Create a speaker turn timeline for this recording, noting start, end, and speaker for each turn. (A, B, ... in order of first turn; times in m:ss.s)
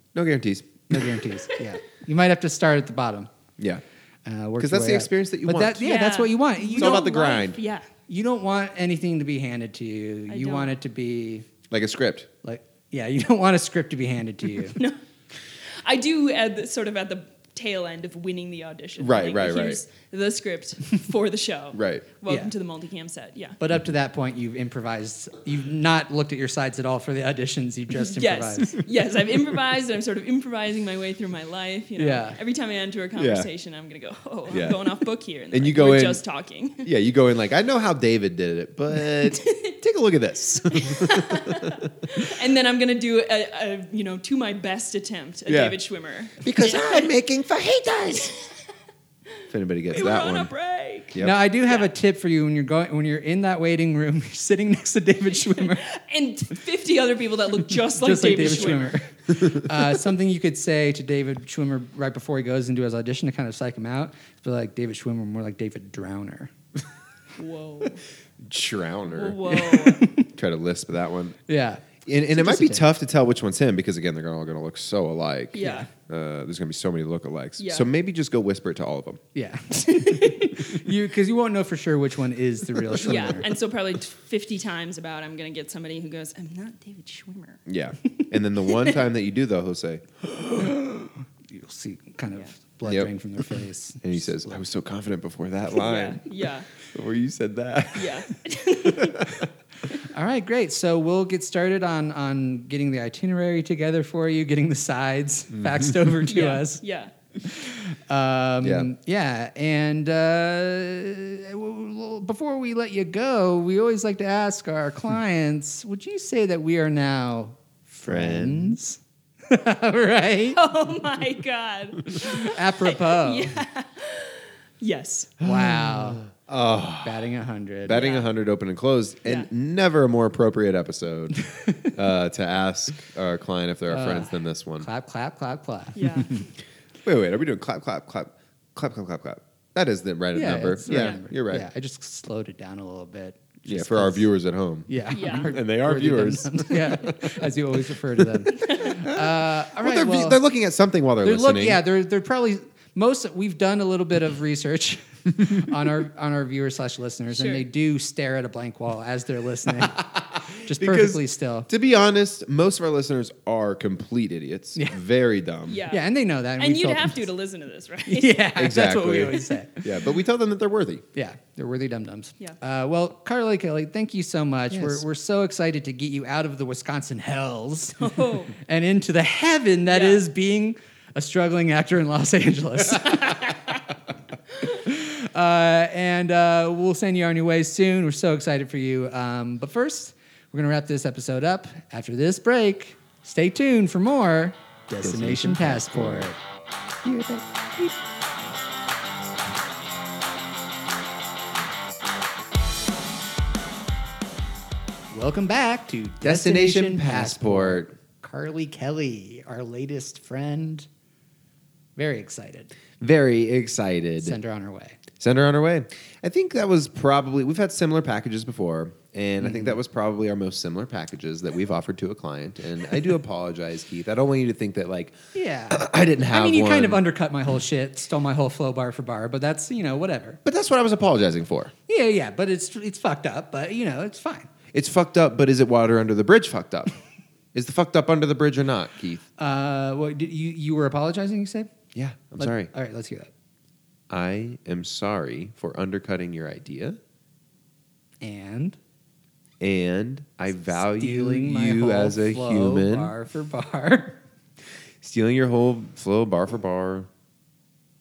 0:00.1-0:01.2 A
0:00.9-0:03.3 B
0:03.6-0:03.8 A
0:04.3-0:07.2 B
0:04.6-0:05.8 A
0:05.8-0:07.9 C
0:06.8-0:07.6 A
0:08.1-0:11.5 B
0:10.3-0:10.7 C
0:11.7-0:12.3 A
0:12.4-0:14.8 B
0:15.8-0:23.6 C
0:19.0-0:19.8 A
0:21.7-0:22.0 A
0:23.6-0:28.8 B
0:28.0-0:36.9 C
0:32.0-0:32.4 B
0:33.2-0:33.5 A
0:34.5-0:34.8 A
0:35.5-0:36.2 A
0:36.8-0:41.9 A
0:39.1-0:39.8 C
0:40.7-0:47.1 C
0:45.5-0:45.8 A
0:46.4-0:48.3 A
0:49.5-0:50.5 A
0:49.9-0:51.2 C
0:51.1-0:51.4 A
0:51.2-0:55.9 B
0:55.6-0:59.0 C
0:58.0-1:06.5 B
1:07.4-1:08.0 C
1:08.4-1:09.4 A
1:09.1-1:10.1 C
1:09.5-1:10.3 B
1:10.3-1:11.4 A
1:11.5-1:12.9 B
1:12.0-1:19.2 A
1:15.5-1:15.9 C
1:15.6-1:15.9 B
1:17.6-1:17.9 C
1:19.4-1:23.5 B
1:19.9-1:20.5 C
1:23.0-1:27.6 C
1:27.7-1:30.1 A
1:30.4-1:34.6 B
1:32.9-1:36.2 A
1:35.7-1:36.7 C
1:36.9-1:38.3 A
1:38.0-1:39.3 C
1:38.8-1:39.5 A
1:40.0-1:46.8 B
1:45.6-1:46.1 A
1:46.3-1:47.1 C
1:47.4-2:00.6 B
1:48.6-1:48.9 A
1:58.1-1:58.8 A
2:00.5-2:05.3 C
2:02.1-2:03.5 B
2:05.4-2:06.2 B
2:05.4-2:07.2 A
2:07.0-2:08.0 B
2:07.9-2:11.4 A
2:07.9-2:08.3 C
2:11.6-2:11.9 B
2:11.9-2:14.9 A
2:13.9-2:16.2 B
2:16.0-2:16.4 C
2:17.0-2:21.7 A
2:20.3-2:24.3 B
2:20.9-2:21.2 C
2:23.7-2:27.5 A
2:24.9-2:30.4 B
2:25.1-2:25.6 C
2:28.2-2:31.8 A
2:28.5-2:29.0 C
2:31.2-2:41.7 B
2:37.3-2:37.6 C
2:40.7-2:45.8 A
2:45.7-2:46.0 C
2:45.9-2:47.2 B
2:46.6-2:48.5 C
2:48.1-2:49.9 B
2:48.6-2:51.0 A
2:51.2-3:03.8 B
2:54.7-2:55.0 A
2:58.0-2:58.5 C
2:59.9-3:00.2 C
3:04.6-3:16.4 B
3:15.0-3:16.3 A
3:17.0-3:18.0 A
3:25.1-3:30.9 B
3:26.2-3:27.9 A
3:32.0-3:32.7 B
3:33.0-3:34.4 A
3:34.2-3:35.0 B
3:35.2-3:45.2 A
3:39.4-3:39.8 B
3:45.3-3:50.4 B
3:45.7-3:47.0 A
3:50.4-3:51.7 A
3:51.9-3:54.5 B
3:54.7-3:56.9 A
3:57.5-3:59.2 A
3:59.4-4:01.7 B
4:02.0-4:02.7 A
4:02.4-4:03.3 B
4:04.1-4:07.0 A
4:08.2-4:08.8 B
4:09.6-4:13.1 A
4:10.7-4:14.2 B
4:15.0-4:17.1 A